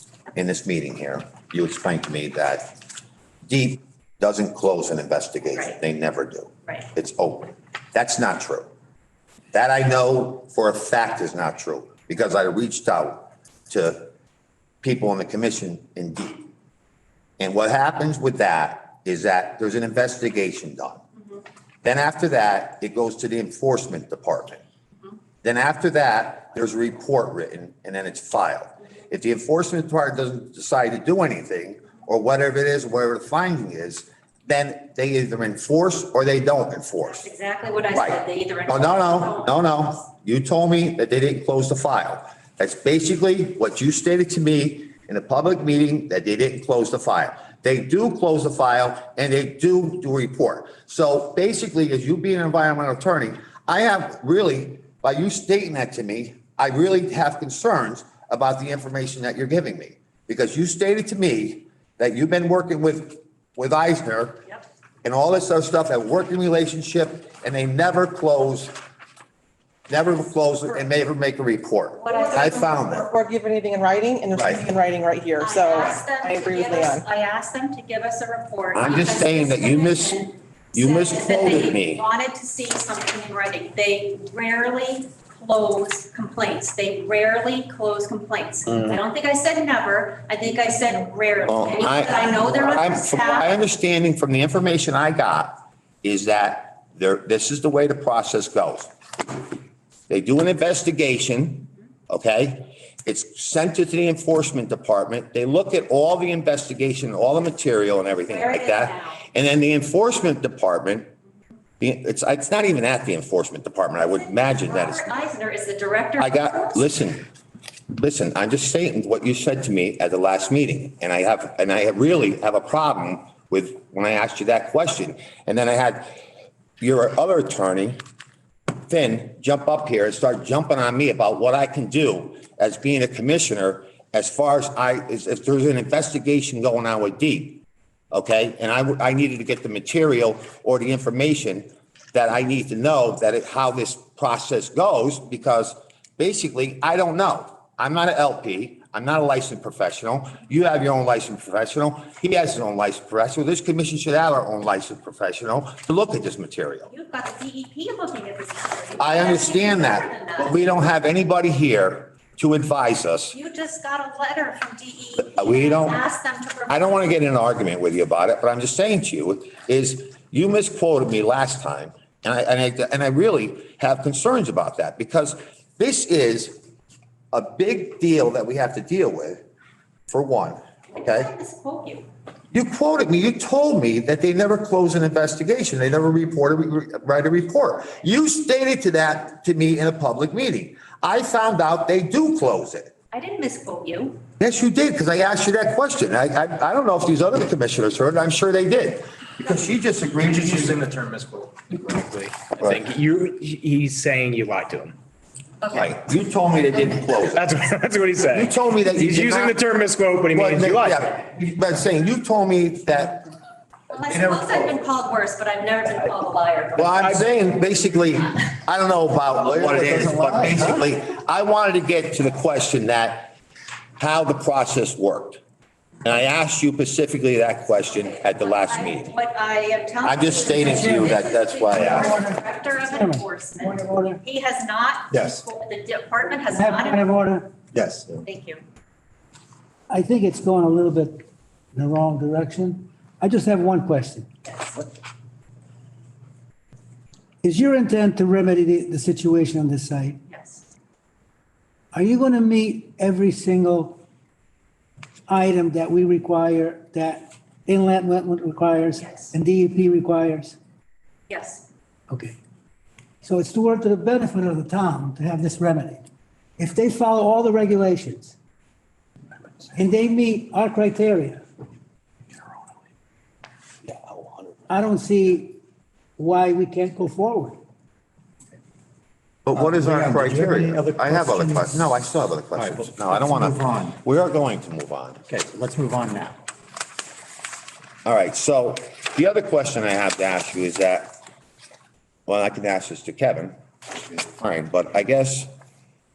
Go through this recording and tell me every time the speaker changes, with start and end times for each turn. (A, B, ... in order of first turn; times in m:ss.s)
0:00.3-0:02.7 A
0:03.5-0:08.7 A
0:09.5-0:14.1 A
0:14.8-0:16.5 A
0:17.4-0:21.0 A
0:21.8-0:24.6 A
0:25.4-0:37.3 A
0:37.2-0:39.9 B
0:37.9-1:04.5 A
1:05.0-1:08.7 A
1:09.9-1:13.1 A
1:12.0-1:12.9 B
1:12.2-1:17.0 C
1:14.3-1:14.6 A
1:15.4-1:33.6 B
1:18.7-1:22.0 A
1:31.5-1:38.9 A
1:40.1-1:51.1 A
1:48.2-1:49.2 B
1:51.8-1:55.2 A
1:54.1-1:56.9 B
1:56.2-1:57.3 A
1:57.9-2:06.1 A
2:06.8-2:08.0 A
2:08.8-2:36.9 A
2:36.9-2:40.7 B
2:39.0-2:43.4 A
2:43.3-2:47.1 B
2:45.2-2:46.0 A
2:46.7-2:56.6 A
2:57.3-2:59.4 A
3:00.1-3:01.3 A
3:00.9-3:02.1 B
3:02.5-3:12.9 A
3:13.1-3:14.2 B
3:14.4-3:20.8 A
3:20.9-3:25.0 D
3:25.7-3:27.4 A
3:27.3-3:31.1 D
3:28.3-3:29.6 A
3:30.3-3:33.3 A
3:33.9-3:37.0 B
3:34.1-3:34.7 A
3:36.8-3:43.3 A
3:36.9-3:37.2 D
3:39.6-3:40.6 E
3:44.0-3:45.4 A
3:46.0-3:49.1 A
3:47.9-3:57.1 B
3:50.0-3:52.2 A
3:50.5-3:51.2 F
3:51.7-3:54.2 F
3:55.1-3:55.4 E
3:56.5-3:57.5 F
3:57.7-3:58.2 E
3:58.2-3:58.6 B
3:59.9-4:04.3 F
4:07.4-4:10.2 F
4:10.3-4:10.6 B
4:11.9-4:14.0 F
4:15.3-4:20.6 F
4:19.0-4:19.3 B
4:21.3-4:21.6 B
4:22.1-4:22.4 F
4:23.2-4:26.0 F
4:26.6-4:28.3 F
4:29.7-4:31.4 F
4:34.7-4:35.6 F
4:36.2-4:37.6 F
4:39.4-4:45.2 A
4:39.5-4:42.0 E
4:42.5-4:44.0 E
4:45.3-4:46.4 E
4:48.0-4:51.2 A
4:52.3-4:53.5 A
4:54.1-4:55.5 A